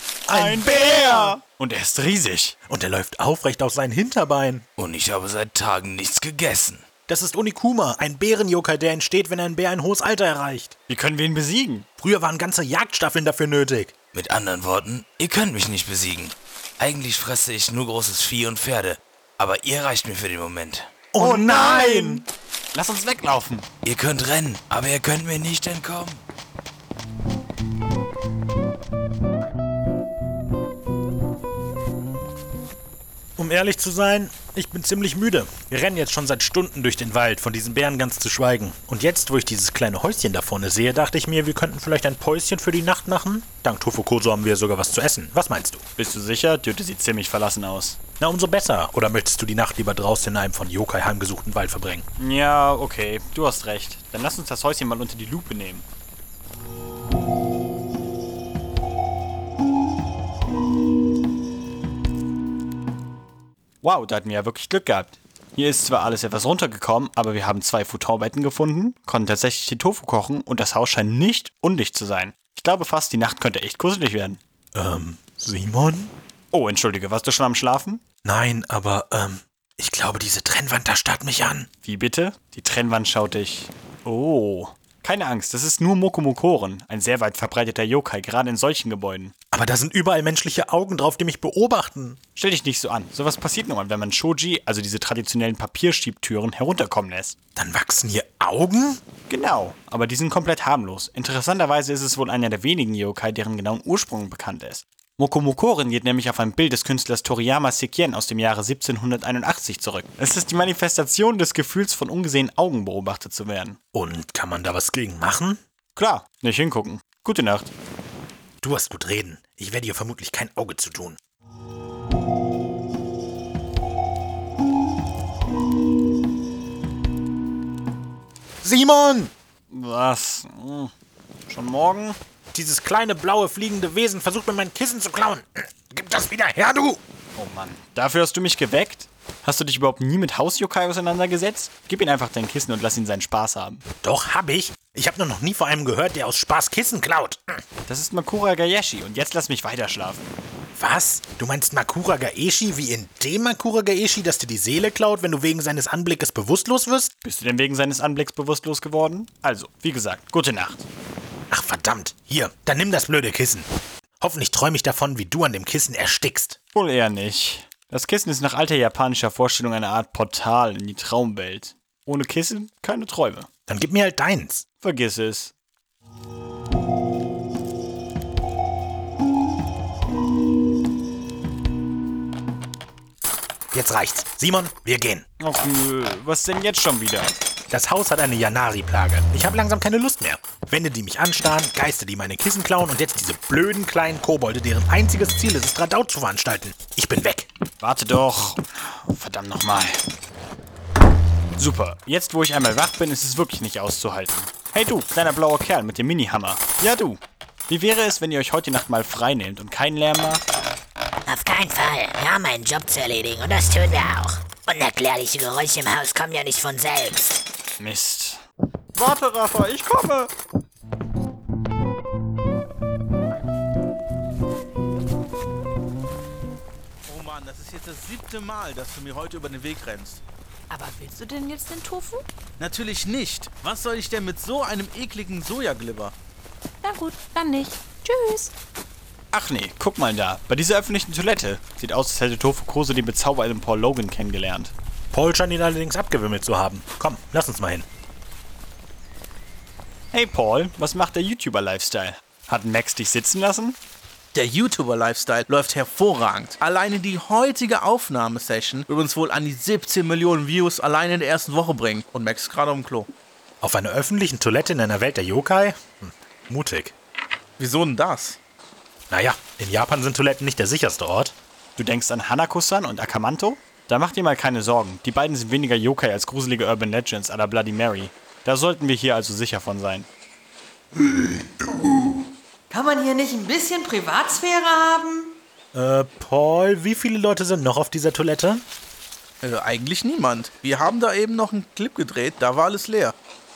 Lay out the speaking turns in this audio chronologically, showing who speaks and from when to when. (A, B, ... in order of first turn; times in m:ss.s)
0:00.3-0:01.4 A
0:00.3-0:02.6 B
0:02.7-0:04.6 A
0:04.8-0:06.9 C
0:07.1-0:10.8 A
0:10.9-0:11.9 B
0:12.0-0:13.9 A
0:14.1-0:20.9 C
0:21.1-0:22.2 A
0:21.2-0:23.7 B
0:23.8-0:26.2 C
0:33.4-0:45.8 A
0:46.0-0:48.0 B
0:48.2-0:52.0 A
0:52.2-0:55.9 B
1:03.8-1:14.4 B
1:14.7-1:16.1 A
1:16.5-1:18.0 B
1:18.2-1:21.7 A
1:21.8-1:29.3 B
1:29.5-1:32.2 A
1:32.4-1:37.4 B
1:37.6-1:39.0 A
1:39.3-1:53.8 B
1:53.9-1:55.6 A
1:56.0-1:57.7 B
1:58.6-2:01.2 A
2:08.6-2:09.3 A
2:09.7-2:10.9 B
2:11.5-2:12.2 B
2:12.5-2:17.0 A
2:17.4-2:23.8 B
2:24.0-2:27.6 A
2:27.9-2:30.2 B
2:30.8-2:37.1 A
2:37.2-2:40.9 B
2:41.5-2:43.7 A
2:44.2-2:46.6 A
2:46.7-2:53.5 B
2:53.7-2:54.6 A
2:54.8-2:55.5 B
3:03.7-3:05.2 A
3:05.4-3:07.4 B
3:07.7-3:17.5 A
3:17.8-3:20.0 B
3:21.6-3:30.4 B
3:31.3-3:37.4 D
3:37.8-3:38.4 B
3:39.0-3:40.3 B
3:47.1-3:50.2 E
3:50.7-3:52.2 F
3:52.6-3:56.1 E
3:56.8-3:58.5 F
3:59.3-4:04.7 B
4:05.1-4:07.9 A
4:10.1-4:13.8 B
4:14.3-4:23.1 E
4:23.6-4:27.0 A
4:27.6-4:28.4 E
4:29.1-4:31.4 A
4:31.8-4:40.1 B
4:42.7-4:45.3 G
4:45.7-4:48.6 A
4:49.4-4:53.2 E